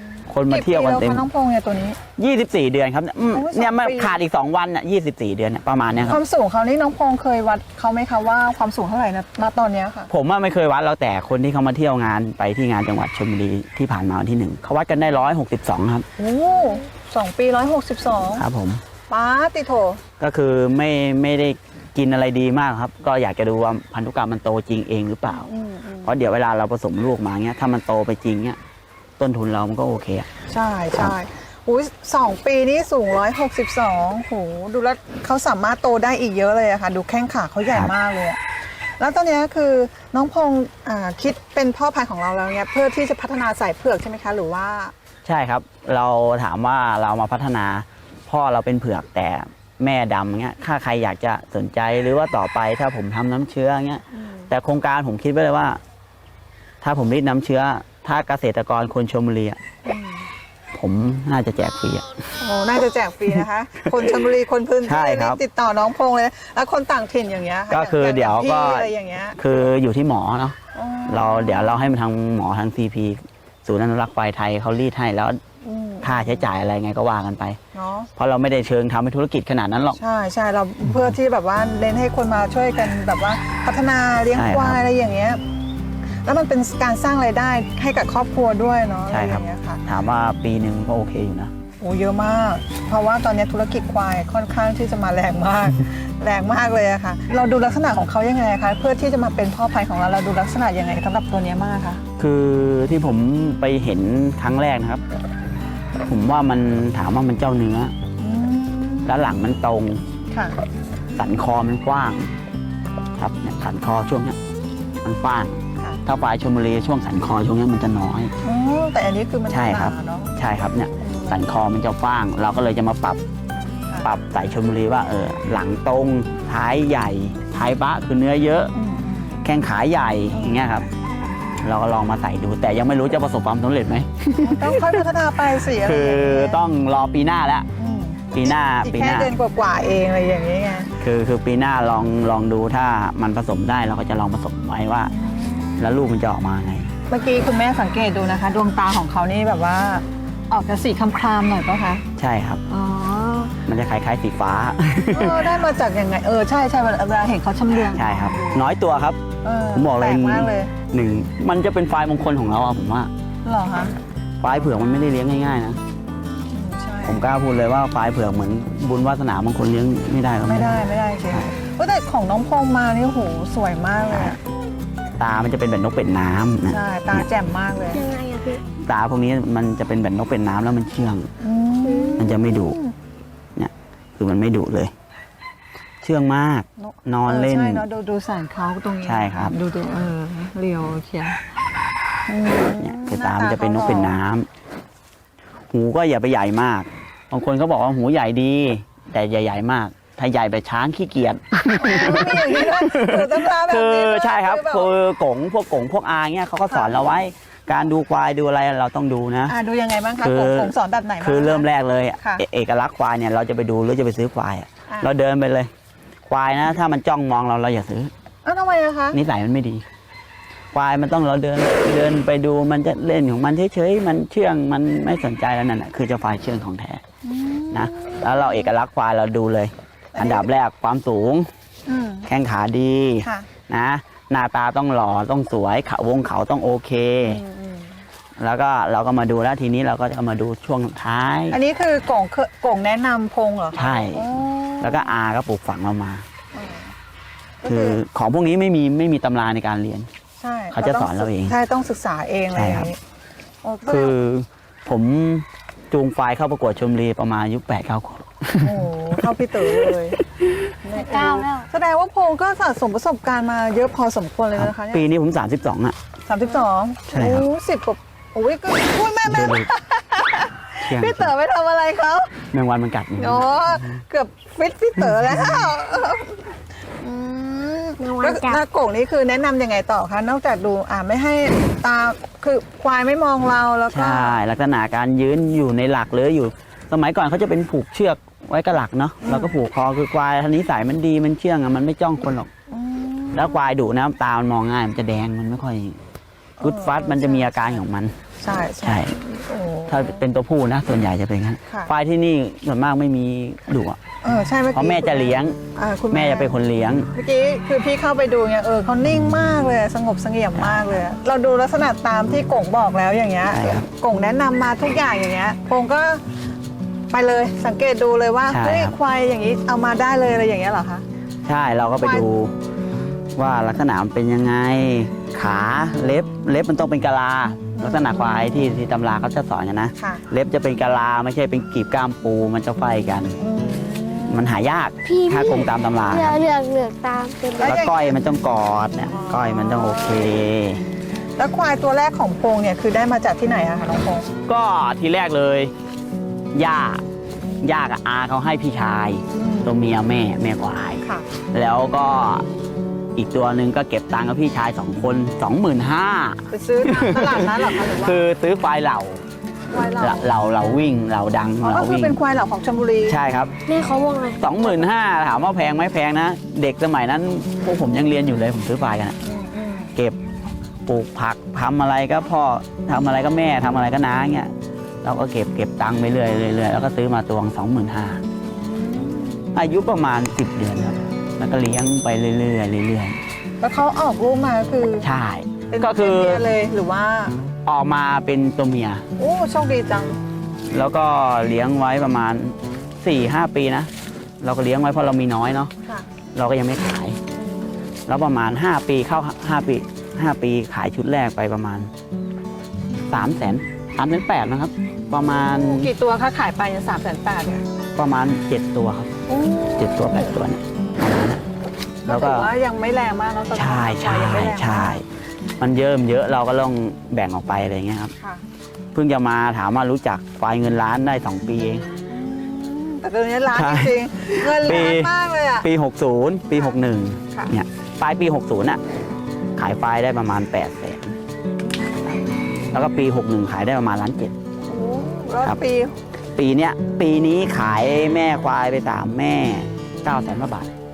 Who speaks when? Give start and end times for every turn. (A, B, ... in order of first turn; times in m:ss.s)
0:00.2-0:02.0 A
0:00.3-0:01.2 B
0:02.2-0:06.2 B
0:03.3-0:04.2 A
0:06.0-0:10.1 A
0:10.1-0:16.1 B
0:16.2-0:18.4 A
0:18.3-0:18.8 B
0:19.1-0:20.0 A
0:20.2-0:25.5 B
0:25.3-0:26.2 A
0:26.0-0:28.6 B
0:29.2-0:30.3 B
0:30.5-0:38.4 A
0:39.0-0:44.9 A
0:45.2-0:55.8 B
0:54.2-0:54.5 A
0:56.8-0:59.6 B
0:59.8-1:00.3 A
1:00.7-1:02.1 B
1:02.4-1:09.4 A
1:04.0-1:04.2 B
1:04.8-1:05.4 B
1:07.7-1:10.6 B
1:10.7-1:11.9 A
1:11.1-1:15.4 B
1:15.6-1:16.5 A
1:16.0-1:17.6 B
1:17.7-1:18.1 A
1:18.2-1:20.0 B
1:20.0-1:25.4 A
1:24.3-1:24.8 B
1:26.2-1:29.8 A
1:29.1-1:31.5 B
1:31.8-1:42.0 A
1:42.2-1:45.0 B
1:46.0-1:47.9 B
1:48.2-1:49.3 A
1:49.0-1:50.0 B
1:50.3-1:50.6 A
1:51.2-1:52.3 B
1:53.2-1:54.4 B
1:55.0-1:58.3 B
1:58.4-2:00.3 A
1:59.5-2:03.2 B
2:01.0-2:01.5 A
2:03.8-2:04.1 A
2:04.0-2:08.7 B
2:08.7-2:09.4 A
2:09.4-2:10.9 B
2:10.3-2:10.6 A
2:11.6-2:15.0 B
2:14.4-2:16.6 A
2:15.7-2:17.7 B
2:17.8-2:20.9 A
2:18.3-2:19.3 B
2:21.0-2:25.1 B
2:25.1-2:25.9 A
2:25.8-2:26.9 B
2:27.1-2:32.0 A
2:32.2-2:32.6 B
2:32.7-2:33.6 A
2:33.6-2:35.5 B
2:35.1-2:38.6 A
2:37.9-2:39.2 B
2:39.4-2:40.7 A
2:39.7-2:43.1 B
2:43.4-2:44.0 A
2:44.4-2:45.8 B
2:46.5-2:47.2 A
2:47.0-2:50.8 B
2:50.4-2:54.4 A
2:54.1-2:54.4 B
2:55.2-2:57.2 B
2:56.7-2:58.1 A
2:57.9-2:58.6 C
2:58.8-3:01.3 B
3:01.4-3:03.0 A
3:02.2-3:02.8 B
3:03.6-3:04.9 B
3:06.0-3:07.8 B
3:06.8-3:11.4 A
3:09.0-3:09.5 B
3:12.3-3:14.2 A
3:12.8-3:14.5 B
3:15.7-3:29.5 B
3:21.7-3:24.9 A
3:26.7-3:27.1 A
3:29.4-3:31.7 A
3:30.2-3:35.7 B
3:36.3-3:38.1 B
3:38.4-3:39.2 A
3:39.1-3:39.8 B
3:40.7-3:47.0 B
3:47.2-3:48.7 A
3:47.7-3:51.5 B
3:50.1-3:50.5 A
3:51.9-3:52.3 A
3:52.2-3:57.4 B
3:57.2-3:58.0 A
3:58.4-4:01.6 B
4:01.5-4:05.2 A
4:03.7-4:04.2 B
4:04.8-4:06.2 B
4:06.5-4:06.9 A
4:07.6-4:08.0 A
4:07.6-4:10.1 B
4:10.4-4:13.0 A
4:10.7-4:11.5 B
4:12.5-4:12.9 B
4:13.6-4:14.2 A
4:13.8-4:20.7 B
4:18.6-4:20.2 A
4:20.8-4:25.0 A
4:21.0-4:21.7 C
4:24.6-4:26.0 B
4:26.2-4:32.3 A
4:27.1-4:27.4 B
4:29.2-4:29.7 B
4:30.8-4:31.3 B
4:32.5-4:33.9 B
4:33.2-4:44.4 A
4:38.0-4:38.6 C
4:43.9-4:52.5 B
4:49.2-4:49.6 A
4:52.7-4:53.6 A
4:53.3-4:56.0 B
4:56.6-4:57.8 A
4:56.6-4:58.1 B
4:58.4-5:00.2 A
4:58.8-4:59.1 B
4:59.9-5:04.0 B
5:04.2-5:06.5 A
5:04.7-5:05.6 B
5:06.1-5:07.1 B
5:07.1-5:16.2 A
5:10.6-5:10.9 B
5:13.5-5:13.9 B
5:17.1-5:21.0 A
5:18.5-5:18.9 B
5:21.4-5:22.5 B
5:22.0-5:22.3 A
5:23.4-5:33.4 B
5:27.8-5:28.5 A
5:30.0-5:30.2 A
5:33.4-5:34.6 A
5:34.3-5:36.4 B
5:35.0-5:37.8 C
5:37.5-5:38.2 A
5:37.6-5:40.8 B
5:39.1-5:40.4 A
5:41.4-5:44.3 A
5:44.4-5:45.7 B
5:46.5-5:47.0 B
5:47.6-5:52.4 B
5:49.3-5:49.7 A
5:53.2-5:59.2 B
5:56.5-5:58.2 A
5:59.7-6:00.3 A
6:00.0-6:02.2 B
6:01.6-6:03.2 A
6:03.1-6:03.6 B
6:03.7-6:04.5 C
6:04.4-6:09.2 B
6:09.2-6:09.9 A
6:10.8-6:14.5 B
6:15.0-6:18.2 B
6:18.5-6:19.5 A
6:19.5-6:23.2 B
6:23.6-6:25.1 A
6:25.0-6:26.5 B
6:25.7-6:27.4 A
6:27.6-6:29.0 B
6:29.2-6:30.2 A
6:30.7-6:33.9 B
6:34.4-6:35.7 B
6:36.3-6:37.2 B
6:37.4-6:37.7 A
6:38.1-6:41.9 B
6:43.1-6:45.9 B
6:45.3-6:47.6 A
6:47.9-6:49.1 B
6:49.3-6:50.4 A
6:49.8-6:51.4 B
6:52.0-6:55.0 A
6:52.1-6:52.5 B
6:53.5-6:55.0 B
6:55.6-6:58.1 B
6:58.9-7:01.8 B
7:02.1-7:05.7 A
7:03.5-7:08.8 B
7:06.5-7:06.8 A
7:09.6-7:11.2 B
7:12.7-7:14.3 B
7:14.7-7:16.0 A
7:16.3-7:20.7 B